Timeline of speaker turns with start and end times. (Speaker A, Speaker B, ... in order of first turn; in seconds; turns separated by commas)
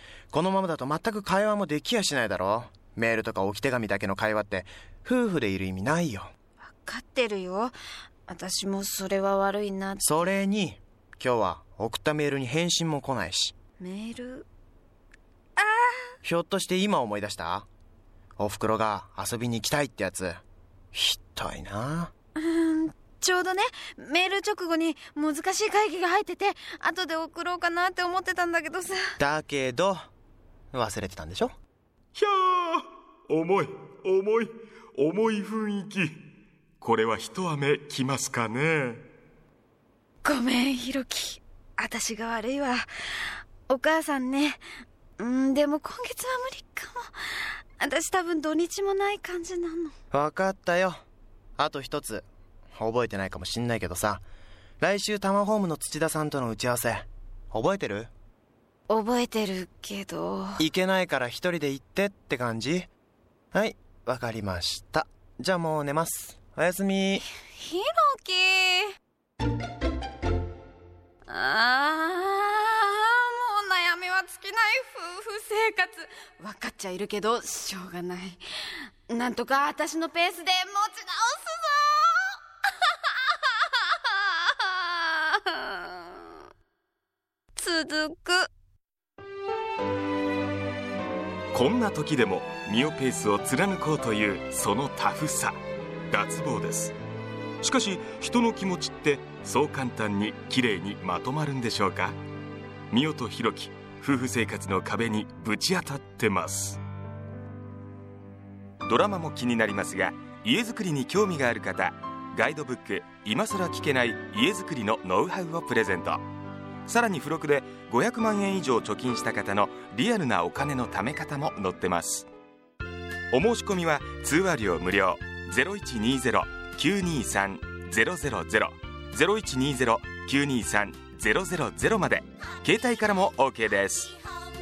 Speaker A: 0.3-6.3, Speaker B: 6.7-7.8, Speaker B: 8.3-10.3, Speaker A: 10.0-13.5, Speaker B: 13.8-14.5, Speaker B: 15.6-16.2, Speaker A: 16.2-17.7, Speaker A: 18.4-22.1, Speaker B: 22.4-29.2, Speaker A: 29.2-30.1, Speaker A: 30.7-31.5, Speaker C: 32.1-36.2, Speaker C: 36.8-39.0, Speaker B: 40.2-44.6, Speaker B: 45.2-49.9, Speaker A: 50.1-51.0, Speaker A: 51.6-54.2, Speaker A: 54.8-58.1, Speaker B: 58.9-60.6, Speaker A: 60.6-62.9, Speaker A: 63.5-67.2, Speaker B: 67.4-69.0, Speaker B: 71.3-86.3, Speaker B: 87.6-88.5, Speaker C: 91.5-97.0, Speaker C: 97.6-102.2, Speaker C: 102.9-106.8, Speaker C: 108.8-116.2, Speaker C: 116.8-122.3, Speaker C: 123.3-134.2